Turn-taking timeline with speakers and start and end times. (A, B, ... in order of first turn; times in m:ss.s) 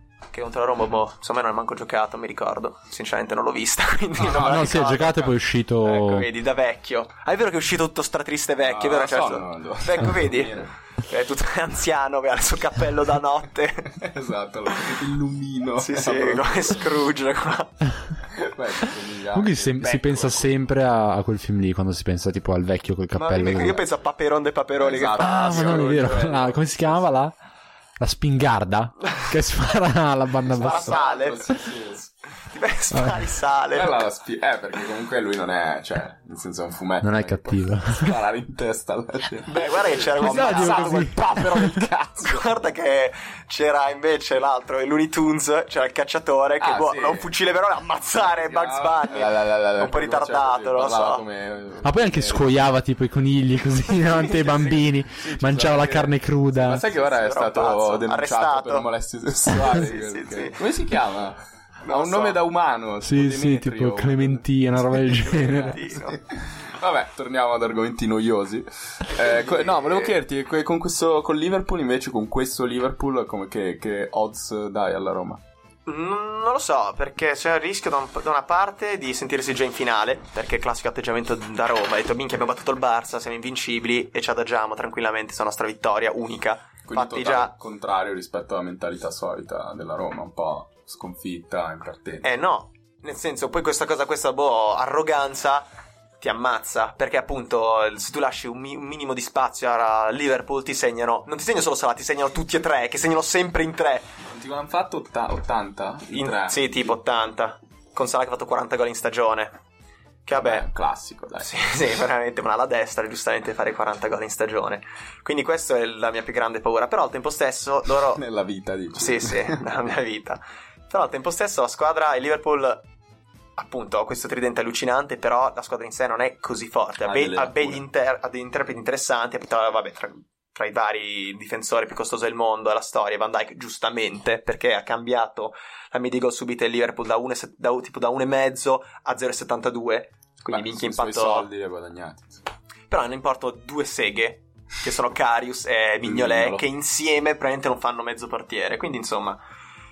0:00.3-0:05.3 A
0:04.2-0:04.7 B
0:04.3-0:06.3 C
0:05.8-0:14.0 A
0:08.6-0:10.7 B
0:14.0-0:16.8 B
0:15.8-0:17.9 A
0:18.3-0:20.6 B
0:19.3-0:23.8 C
0:23.1-0:25.9 A
0:24.8-0:27.0 B
0:25.2-0:27.3 C
0:28.0-0:31.0 C
0:30.5-0:31.5 A
0:30.6-0:32.1 B
0:32.5-0:34.0 A
0:32.9-0:33.3 C
0:33.7-0:42.5 B
0:37.0-0:38.2 C
0:39.4-0:41.4 A
0:40.2-0:41.9 C
0:42.2-0:51.2 A
0:46.6-0:47.3 B
0:48.2-0:52.6 B
0:51.8-0:56.8 C
0:54.0-1:15.4 B
0:56.9-0:58.9 A
0:59.6-1:00.6 A
1:01.8-1:02.4 A
1:03.0-1:05.8 C
1:05.1-1:06.2 A
1:09.1-1:10.2 A
1:15.9-1:27.5 A
1:26.8-1:32.3 B
1:32.2-1:35.6 A
1:36.2-1:44.1 A
1:44.3-1:46.8 B
1:46.1-1:49.5 A
1:50.2-1:50.7 A
1:50.3-1:51.6 B
1:51.4-1:58.2 A
1:58.1-1:59.6 B
1:58.9-2:02.8 A
2:03.6-2:21.5 A
2:07.0-2:07.8 B
2:20.5-2:22.4 B
2:22.9-2:29.4 A
2:26.0-2:26.6 B